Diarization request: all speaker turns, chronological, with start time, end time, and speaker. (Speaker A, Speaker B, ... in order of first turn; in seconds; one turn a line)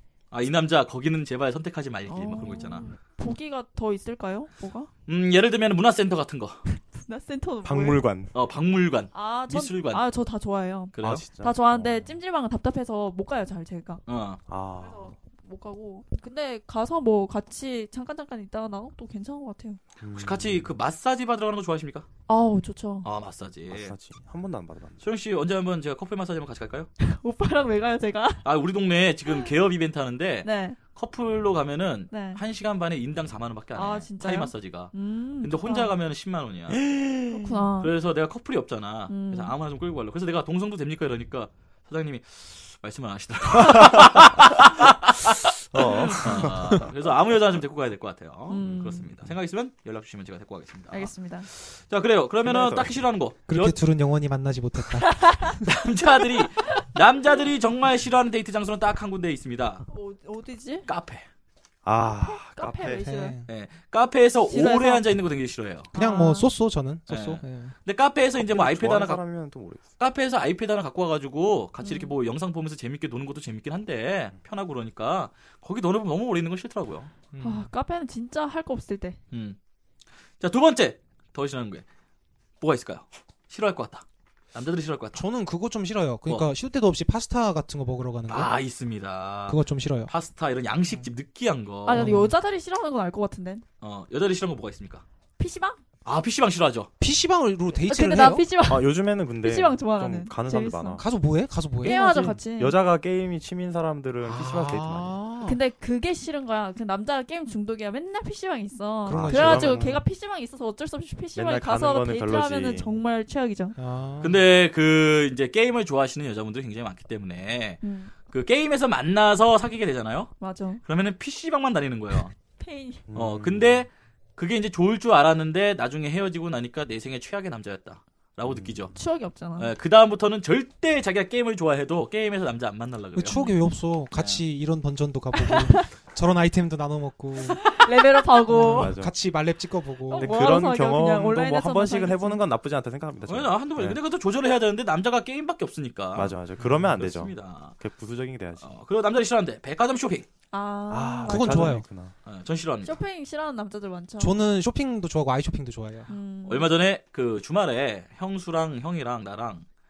Speaker A: 0.3-2.9
Speaker B: 2.1-4.9
Speaker A: 5.1-6.6
Speaker B: 6.7-8.0
Speaker C: 7.6-8.3
Speaker A: 8.3-10.0
Speaker B: 9.1-14.0
Speaker A: 10.9-11.2
Speaker C: 11.0-12.1
Speaker A: 14.1-14.4
Speaker C: 14.5-15.1
Speaker B: 14.8-19.8
Speaker C: 20.0-20.7
Speaker A: 20.2-22.1
Speaker B: 22.3-23.1
Speaker A: 23.0-23.9
Speaker C: 23.7-25.0
Speaker A: 25.0-26.9
Speaker B: 27.0-28.4
Speaker A: 28.4-36.8
Speaker B: 30.4-30.8
Speaker B: 32.1-32.4
Speaker B: 33.7-35.9
Speaker C: 36.7-37.5
Speaker B: 37.3-37.9
Speaker A: 37.8-53.8
Speaker B: 39.1-39.5
Speaker C: 43.5-44.6
Speaker C: 45.7-46.8
Speaker B: 48.5-49.1
Speaker B: 50.9-51.5
Speaker C: 52.4-53.0
Speaker D: 53.5-55.6
Speaker B: 55.0-55.6
Speaker A: 55.6-59.9
Speaker B: 56.6-57.4
Speaker B: 59.9-60.9
Speaker A: 60.9-61.2
Speaker C: 61.8-63.0
Speaker B: 62.2-63.4
Speaker D: 63.0-63.5
Speaker A: 63.5-65.9
Speaker B: 64.5-65.0
Speaker B: 65.9-66.5
Speaker D: 65.9-67.7
Speaker A: 67.1-69.2
Speaker C: 68.4-69.9
Speaker A: 70.0-77.1
Speaker B: 71.8-72.1
Speaker D: 77.3-77.7
Speaker B: 77.4-79.2
Speaker A: 79.3-79.6
Speaker A: 80.4-81.8
Speaker A: 82.6-85.2
Speaker D: 85.1-88.5
Speaker A: 88.3-92.1
Speaker D: 89.5-90.1
Speaker B: 91.8-93.6
Speaker D: 91.9-92.3
Speaker A: 93.8-95.0
Speaker B: 95.4-95.8
Speaker A: 96.0-96.9
Speaker D: 97.0-98.5
Speaker B: 97.8-101.0
Speaker C: 98.6-101.0
Speaker D: 101.0-102.4
Speaker B: 101.8-102.8
Speaker C: 102.5-105.2
Speaker D: 104.2-105.6
Speaker B: 105.4-113.8
Speaker D: 109.0-109.8
Speaker C: 109.1-110.0
Speaker C: 111.3-112.9
Speaker D: 113.8-114.4
Speaker A: 114.2-120.3
Speaker B: 117.8-118.1
Speaker B: 120.4-120.8
Speaker A: 120.8-122.3
Speaker B: 122.6-123.0
Speaker C: 123.1-123.8
Speaker A: 123.1-128.9
Speaker C: 128.4-128.9
Speaker B: 128.9-129.7
Speaker A: 129.6-133.4
Speaker D: 133.2-137.7
Speaker B: 133.3-133.7
Speaker A: 134.1-134.4
Speaker B: 135.4-135.8
Speaker B: 137.6-138.9
Speaker D: 138.5-140.5
Speaker C: 138.6-139.1
Speaker B: 140.1-142.4
Speaker C: 140.2-144.0
Speaker A: 143.3-146.3
Speaker C: 146.1-148.7
Speaker A: 146.9-147.8
Speaker A: 148.6-150.3
Speaker B: 150.5-151.8
Speaker C: 150.9-152.1
Speaker D: 151.2-151.8
Speaker A: 152.2-153.0
Speaker B: 152.8-154.3
Speaker D: 154.2-156.1
Speaker B: 156.1-156.7
Speaker A: 156.4-159.6